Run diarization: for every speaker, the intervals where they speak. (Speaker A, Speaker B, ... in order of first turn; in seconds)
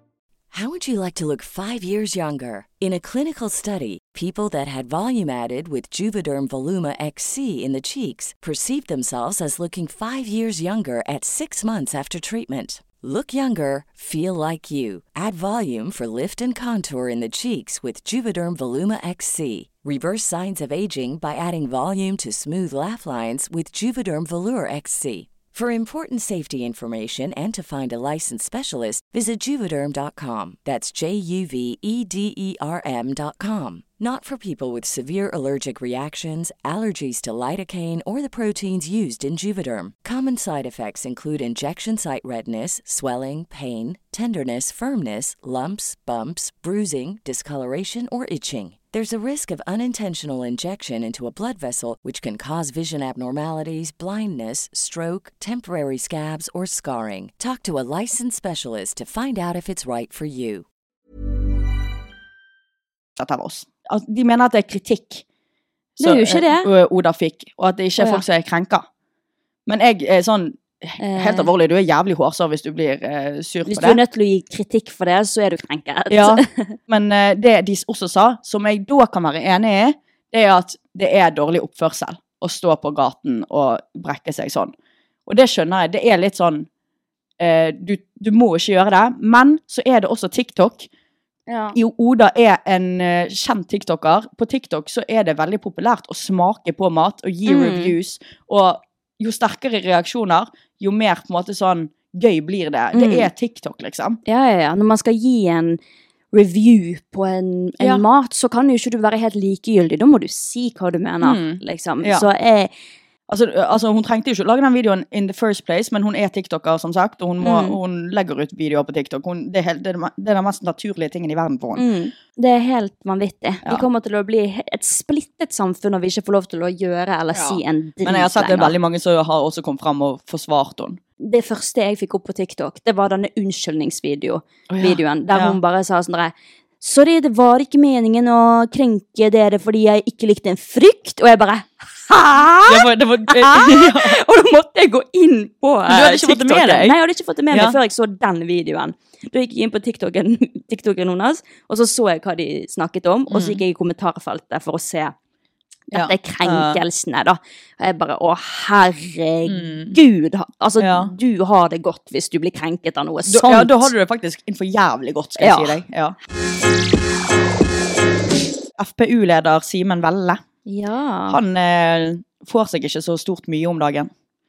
Speaker A: 0.5-60.6
Speaker B: 63.2-65.2, 66.0-68.8, 69.7-74.0, 76.1-84.7, 85.3-86.7, 87.4-90.9, 91.8-104.2, 111.2-112.3, 113.3-121.8, 127.3-131.0, 134.7-135.6, 142.7-144.2, 145.9-147.0, 147.5-147.8, 153.3-153.6, 155.9-156.8, 159.5-160.0, 160.8-161.1, 163.3-166.2, 168.8-170.4, 171.3-174.1
Speaker C: 66.0-66.7, 68.0-68.2, 71.0-71.5, 73.7-76.8, 91.5-91.8, 97.5-97.9, 102.9-103.3, 104.3-105.8, 106.3-112.7, 117.4-117.8, 121.8-128.8, 131.2-155.1, 155.9-163.9, 165.4-165.8, 170.7-171.4